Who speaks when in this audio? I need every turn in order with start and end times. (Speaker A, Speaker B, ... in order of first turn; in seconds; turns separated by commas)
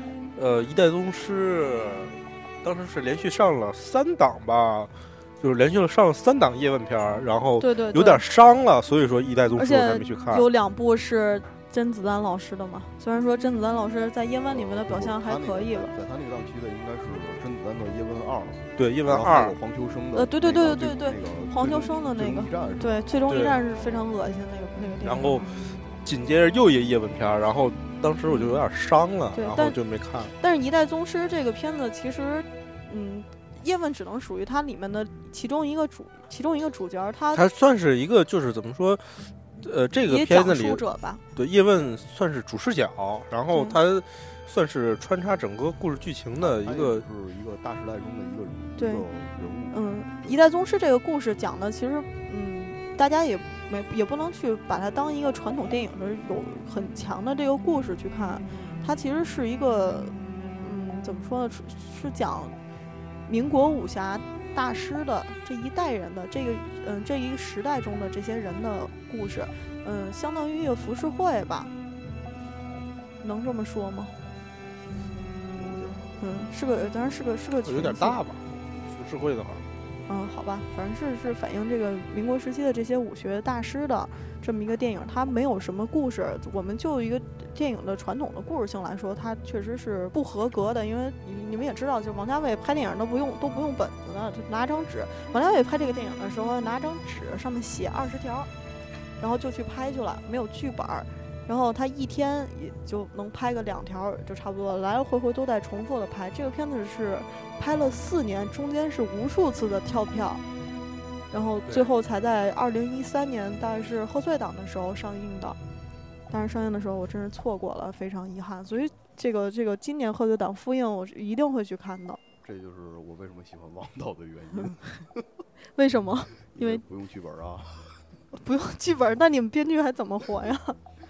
Speaker A: 0.3-10.5, Speaker B: 7.6-8.2, Speaker B: 9.5-15.9, Speaker C: 14.5-23.0, Speaker A: 18.8-19.6, Speaker B: 20.1-25.5, Speaker A: 23.3-23.6, Speaker A: 25.0-30.3, Speaker B: 28.3-28.6, Speaker B: 29.3-29.8, Speaker B: 30.3-37.4, Speaker A: 37.3-40.8, Speaker B: 40.1-41.2, Speaker A: 41.3-47.0, Speaker B: 43.5-43.8, Speaker C: 46.4-49.8, Speaker B: 48.8-49.0, Speaker B: 49.7-62.5, Speaker B: 63.2-71.7, Speaker B: 73.2-74.2, Speaker C: 75.5-76.1, Speaker B: 76.2-78.2, Speaker A: 77.7-79.6, Speaker B: 80.1-98.5, Speaker B: 99.2-110.4, Speaker B: 111.3-115.6, Speaker B: 116.3-122.2, Speaker C: 122.4-125.2, Speaker B: 125.7-126.8, Speaker C: 126.5-127.8, Speaker B: 128.3-130.8